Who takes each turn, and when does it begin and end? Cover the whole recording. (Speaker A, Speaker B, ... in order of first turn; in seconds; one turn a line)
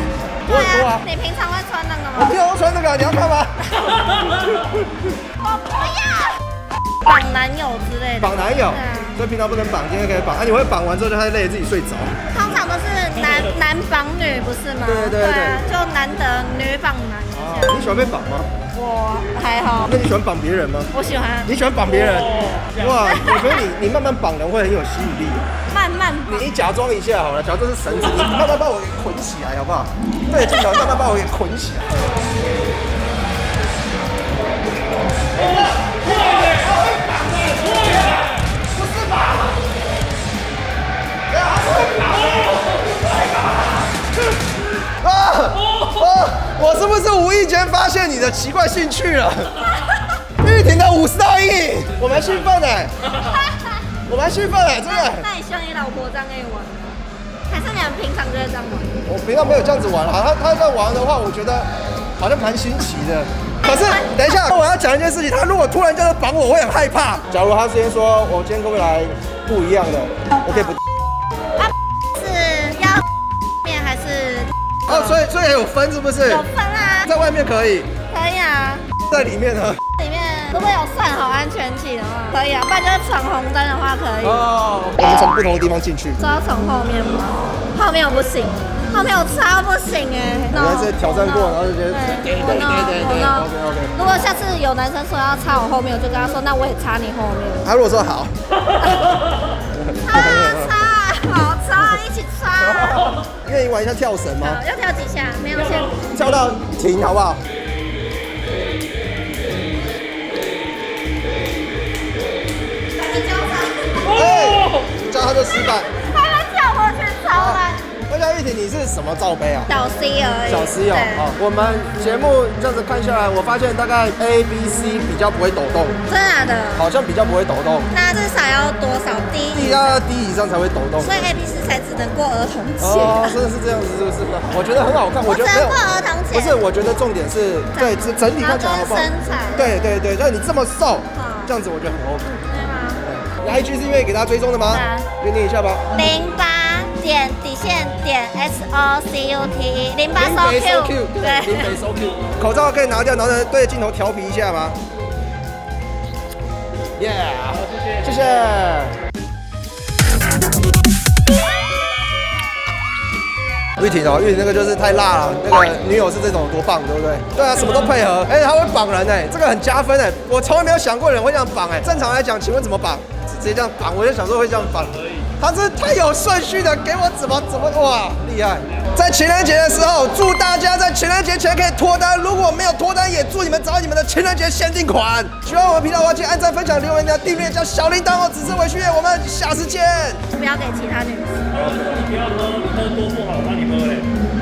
Speaker A: 0.5-2.4
Speaker B: 0.5-1.1
Speaker B: 2.2-3.7
Speaker B: 4.3-4.9
Speaker A: 5.4-6.4
Speaker A: 7.0-9.2
Speaker B: 8.2-12.2
Speaker A: 12.3-17.9
Speaker B: 14.8-15.7
Speaker B: 17.3-18.5
Speaker A: 18.7-19.9
Speaker B: 19.9-20.9
Speaker A: 20.9-21.5
Speaker B: 21.4-25.5
Speaker C: 21.9-23.0
Speaker A: 23.0-23.6
Speaker A: 25.7-26.5
Speaker B: 26.3-31.9
Speaker C: 35.4-36.7
Speaker B: 35.4-39.6
Speaker C: 37.5-38.1
Speaker B: 41.3-42.6
Speaker B: 44.9-49.7
Speaker A: 49.8-50.1
Speaker B: 50.4-52.9
Speaker A: 53.1-53.8
Speaker B: 54.1-55.3
Speaker A: 54.9-58.9
Speaker B: 59.1-70.8
Speaker A: 63.6-64.1
Speaker A: 71.6-73.0
Speaker A: 73.6-75.2
Speaker B: 74.9-76.4
Speaker A: 76.3-77.1
Speaker B: 77.0-77.9
Speaker A: 78.1-78.8
Speaker B: 79.1-79.8
Speaker A: 80.0-84.5
Speaker B: 84.2-86.2
Speaker A: 86.2-97.7
Speaker B: 90.5-93.9
Speaker B: 97.6-98.3
Speaker A: 98.8-99.1
Speaker B: 99.8-100.8
Speaker A: 100.0-103.1
Speaker B: 102.6-104.6
Speaker A: 104.4-106.1
Speaker C: 105.7-106.0
Speaker B: 106.1-107.4
Speaker A: 112.9-114.3
Speaker C: 114.0-114.9
Speaker B: 114.1-115.9
Speaker A: 115.2-117.8
Speaker B: 117.3-119.7
Speaker A: 119.7-121.3
Speaker B: 120.5-126.0
Speaker A: 126.1-126.9
Speaker B: 126.8-127.9
Speaker A: 127.9-130.0
Speaker B: 129.5-131.3
Speaker A: 131.0-133.4
Speaker B: 132.8-142.4
Speaker A: 135.2-136.6
Speaker A: 137.7-139.7
Speaker A: 141.1-141.6
Speaker A: 142.5-143.0
Speaker B: 143.1-145.8
Speaker A: 144.7-145.1
Speaker A: 145.9-151.8
Speaker B: 150.2-154.8
Speaker B: 157.0-158.9
Speaker C: 157.7-158.1
Speaker B: 163.8-190.2
Speaker A: 190.3-191.7
Speaker C: 191.5-194.1